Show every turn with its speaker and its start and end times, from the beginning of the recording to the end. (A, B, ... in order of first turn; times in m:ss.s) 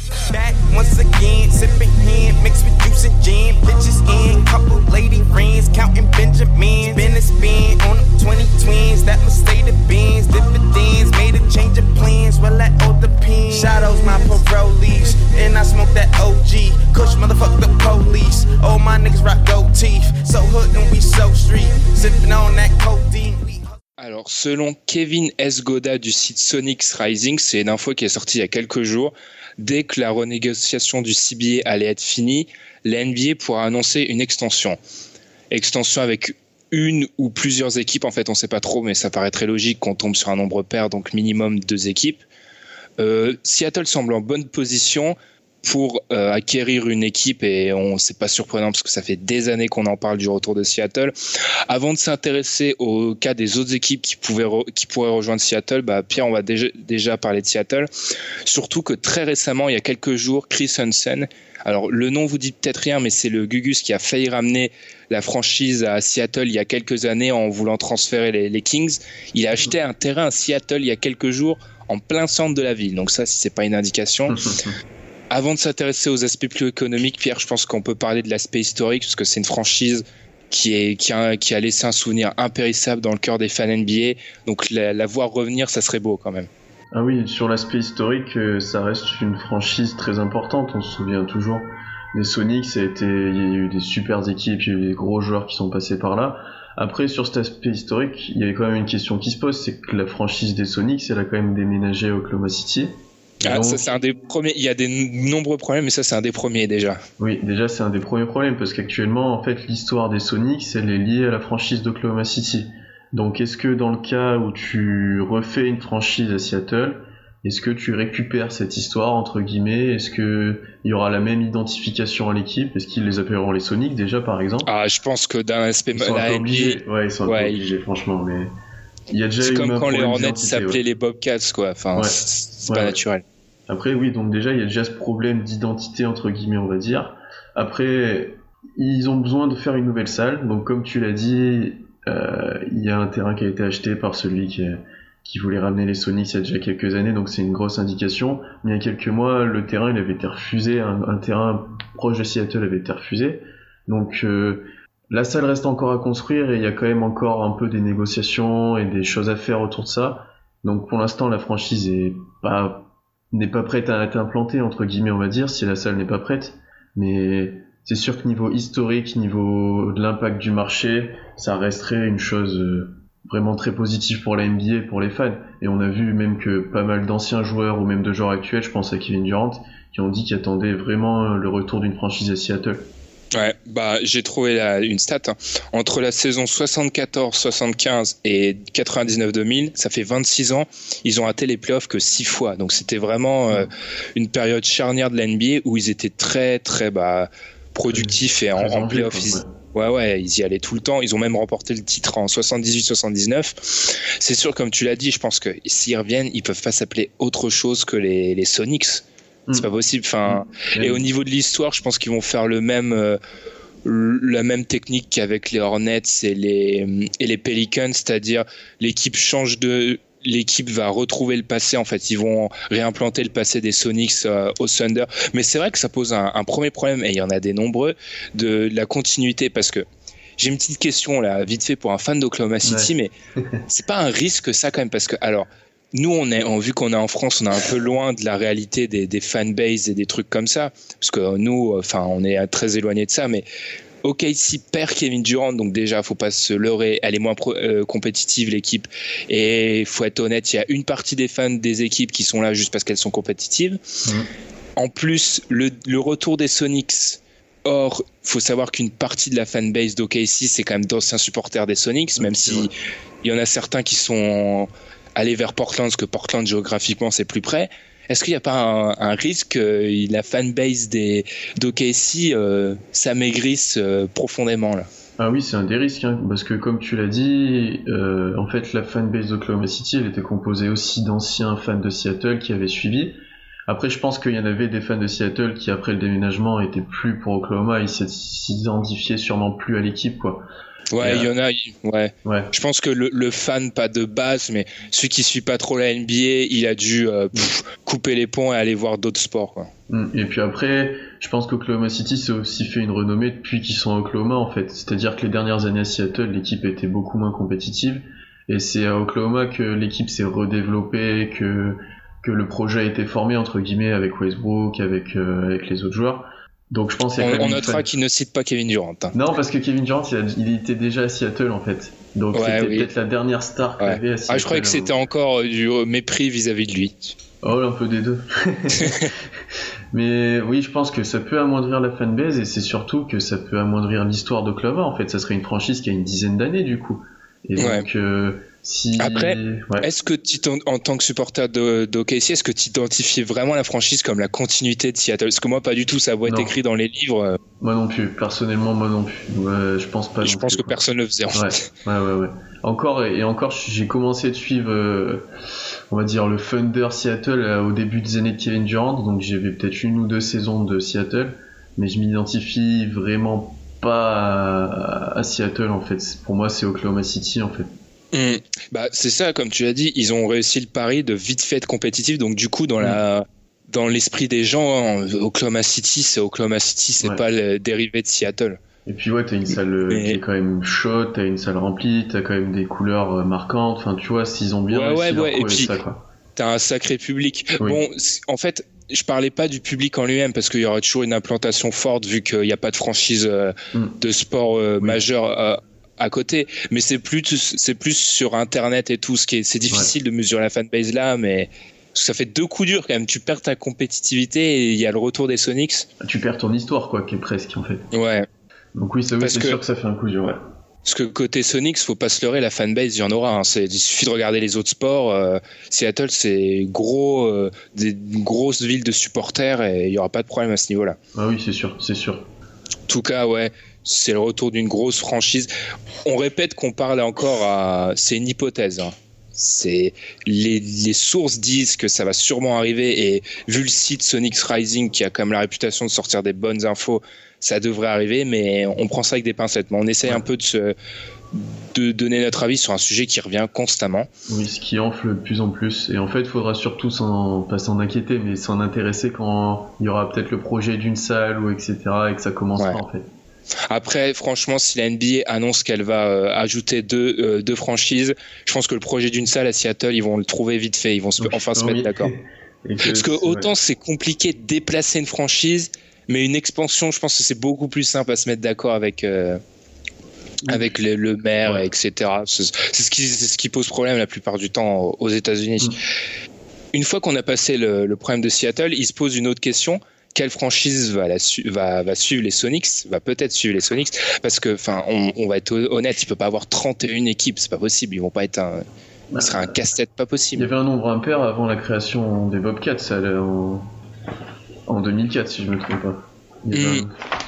0:00.2-0:23.7 A
0:24.0-0:34.8 B
0:35.5-0:42.2 B
0:43.0-0:51.1 B
0:51.7-0:57.9 B
0:58.4-1:14.4 B
1:14.3-1:14.8 C
1:15.3-1:26.5 B
1:26.9-1:42.9 C
1:43.4-1:47.0 B
1:43.4-1:43.8 C
1:47.2-2:04.7 C
2:04.6-2:07.6 B
2:05.9-2:08.5 C
2:09.1-2:10.8 C
2:09.4-2:13.2 B
2:11.9-2:13.0 C
2:13.7-3:02.9 C
3:03.3-3:29.0 B
3:17.9-3:19.5 C
3:29.5-3:33.2 B
3:30.2-3:31.1 C
3:33.8-3:49.8 B
3:50.4-3:53.1 B
3:52.6-3:53.6 C
3:53.7-4:03.4 B
4:04.0-4:13.8 B
4:14.8-4:22.7 B
4:22.2-4:22.7 C
4:23.2-4:34.9 B
4:35.2-4:50.4 C
4:50.9-4:59.7 B
4:51.0-4:51.3 C
4:52.2-4:52.5 C
4:59.9-5:17.9 C
5:17.2-5:19.1 B
5:19.1-5:24.9 C
5:22.3-5:22.9 B
5:23.8-5:27.1 B
5:27.4-5:29.3 C
5:29.9-5:39.9 C
5:37.6-5:37.8 B
5:39.0-5:47.4 B
5:46.2-5:46.5 C
5:47.6-5:50.8 C
5:50.2-5:51.5 B
5:51.3-5:55.2 C
5:55.9-6:07.7 C
6:08.1-6:18.6 B
6:18.8-6:26.0 C
6:19.9-6:20.2 B
6:24.7-6:25.8 B
6:26.4-6:45.9 B
6:46.0-6:47.9 C
6:47.9-6:48.3 B
6:48.7-6:50.4 C
6:49.2-6:49.6 B
6:50.8-7:01.0 B
7:01.1-7:02.3 C
7:02.9-7:05.5 B
7:06.0-7:20.7 B
7:21.3-7:24.1 B
7:24.3-7:33.1 C
7:33.7-7:42.1 B
7:41.2-7:43.5 C
7:42.8-7:49.4 B
7:50.4-7:50.7 C
7:50.5-7:55.7 B
7:56.7-8:08.6 B
8:09.1-8:09.5 C
8:09.2-8:10.5 B
8:10.3-8:13.7 C
8:14.7-8:16.9 C
8:16.5-8:16.8 B